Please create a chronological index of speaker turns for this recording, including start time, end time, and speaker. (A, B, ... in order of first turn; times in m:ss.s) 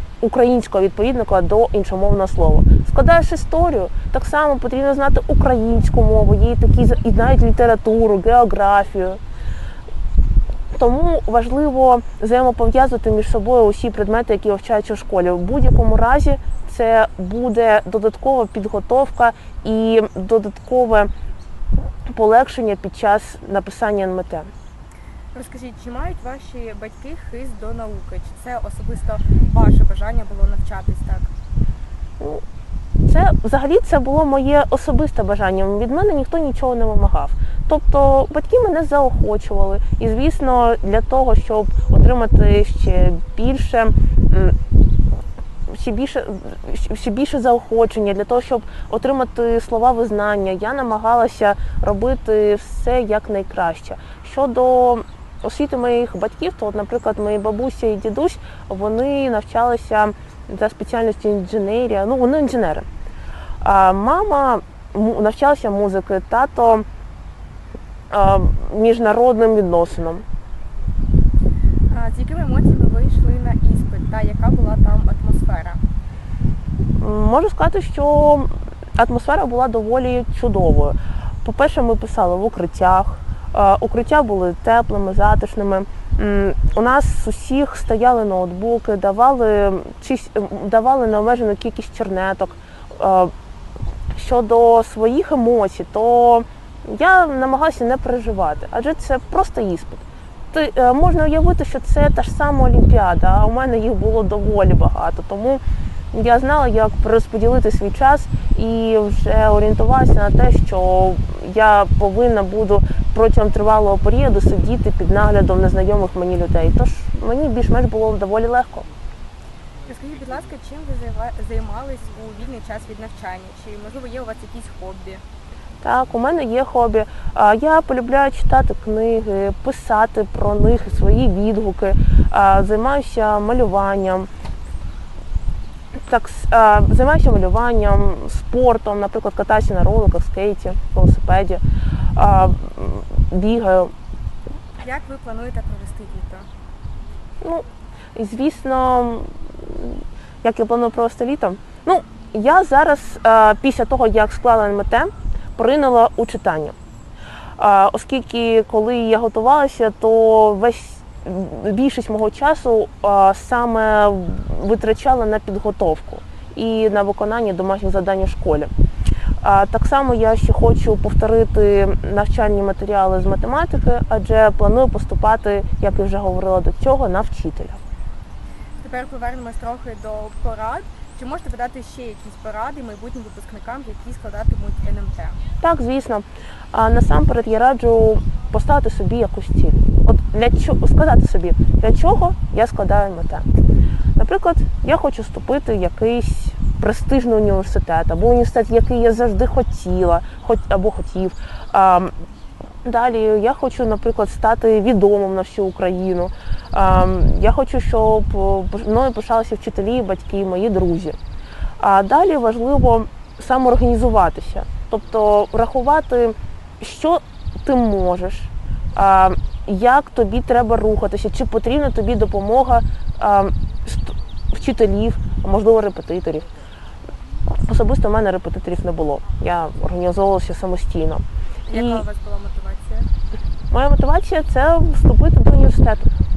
0:00.2-0:09.2 A
0:10.7-0:21.1 A
0:22.1-0:24.5 A
0:25.3-0:31.3 B
0:33.0-0:44.5 A
0:45.7-1:02.9 A
1:03.6-1:06.9 A
1:08.1-1:10.2 A
1:11.9-1:15.8 B
1:17.0-1:33.3 A
1:34.1-1:58.9 A
1:59.8-2:05.2 B
2:05.8-2:14.3 A
2:15.9-2:21.6 A
2:22.1-2:23.9 A
2:24.8-2:26.5 B
2:27.4-2:36.7 A
2:37.6-2:48.7 A
2:49.4-2:57.8 A
2:58.8-3:05.4 B
3:05.6-3:13.5 A
3:14.2-3:22.1 A
3:22.8-3:31.2 A
3:31.8-3:46.5 A
3:47.5-3:52.0 A
3:51.7-3:53.1 B
3:53.7-3:56.1 A